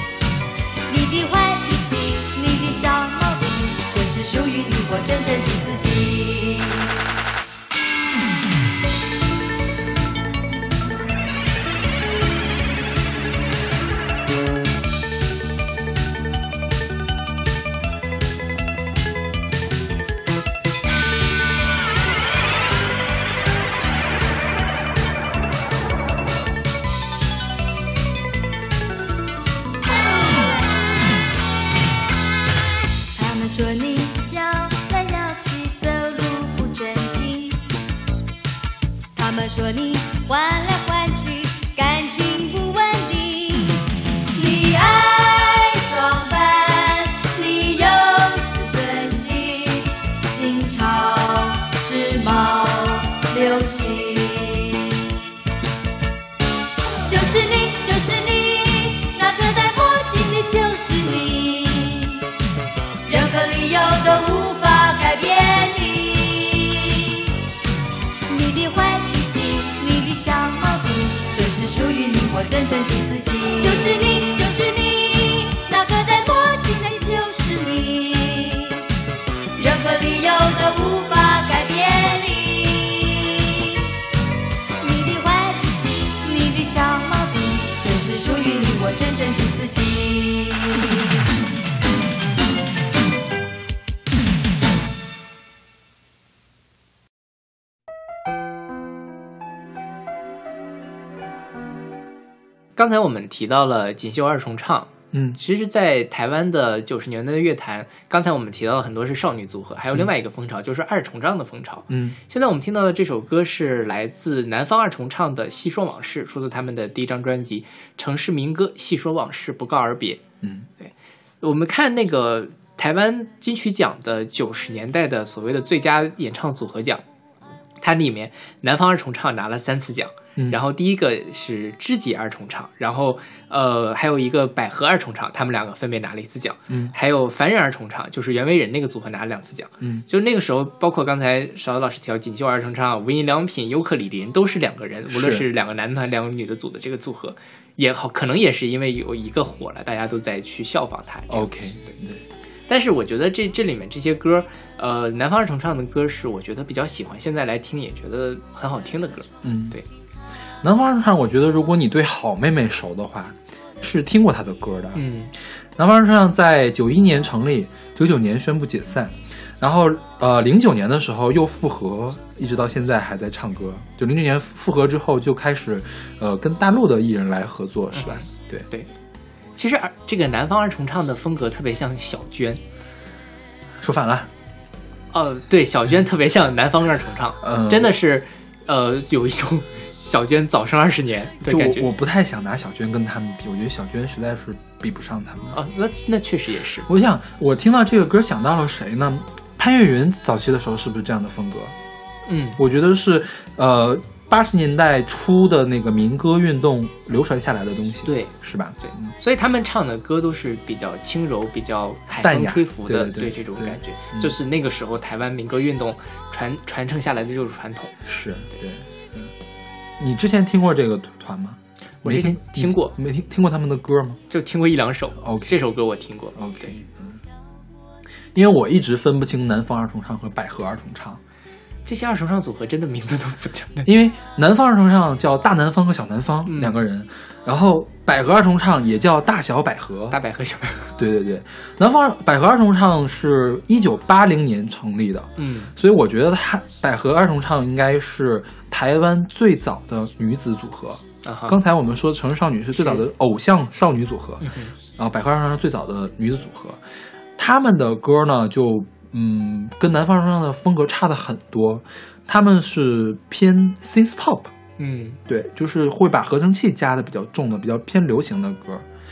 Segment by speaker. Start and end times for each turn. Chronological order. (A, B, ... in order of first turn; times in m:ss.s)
0:00.9-0:06.8 A
0:33.2-0:37.6 A
0:39.2-0:43.8 A
0:44.4-0:54.9 A
0:57.1-1:02.2 A
1:03.1-1:07.0 A
1:08.3-1:18.8 A
1:19.6-1:23.5 A
1:24.8-1:31.1 A
1:42.8-2:00.2 B
1:45.1-1:45.4 C
1:51.9-1:52.2 C
2:00.4-2:00.7 C
2:00.8-2:07.0 B
2:07.8-2:32.0 B
2:16.7-2:16.9 C
2:25.1-2:25.4 C
2:31.3-2:32.2 C
2:32.7-2:39.9 B
2:39.4-2:39.8 C
2:40.6-2:45.1 C
2:45.0-2:45.3 B
2:45.8-2:58.7 C
2:57.9-2:58.9 B
2:59.6-3:02.6 B
3:03.8-3:04.3 C
3:05.1-3:11.9 B
3:07.4-3:08.0 C
3:11.4-3:15.6 C
3:15.5-3:16.9 B
3:16.9-3:21.8 C
3:22.3-3:22.6 B
3:22.6-3:29.1 C
3:28.0-3:37.9 B
3:32.2-3:34.3 C
3:38.0-3:39.3 C
3:40.0-3:44.2 C
3:42.0-3:43.0 B
3:44.3-3:46.7 B
3:45.2-3:45.6 C
3:46.4-3:47.2 C
3:48.4-3:51.2 C
3:51.9-3:53.9 B
3:53.8-4:00.2 C
3:56.5-3:56.8 B
4:00.1-4:00.9 B
4:01.0-4:16.8 C
4:05.4-4:05.7 B
4:11.2-4:11.6 B
4:12.8-4:13.0 B
4:14.4-4:14.7 B
4:17.4-4:24.5 C
4:24.8-4:25.2 B
4:25.3-4:28.9 C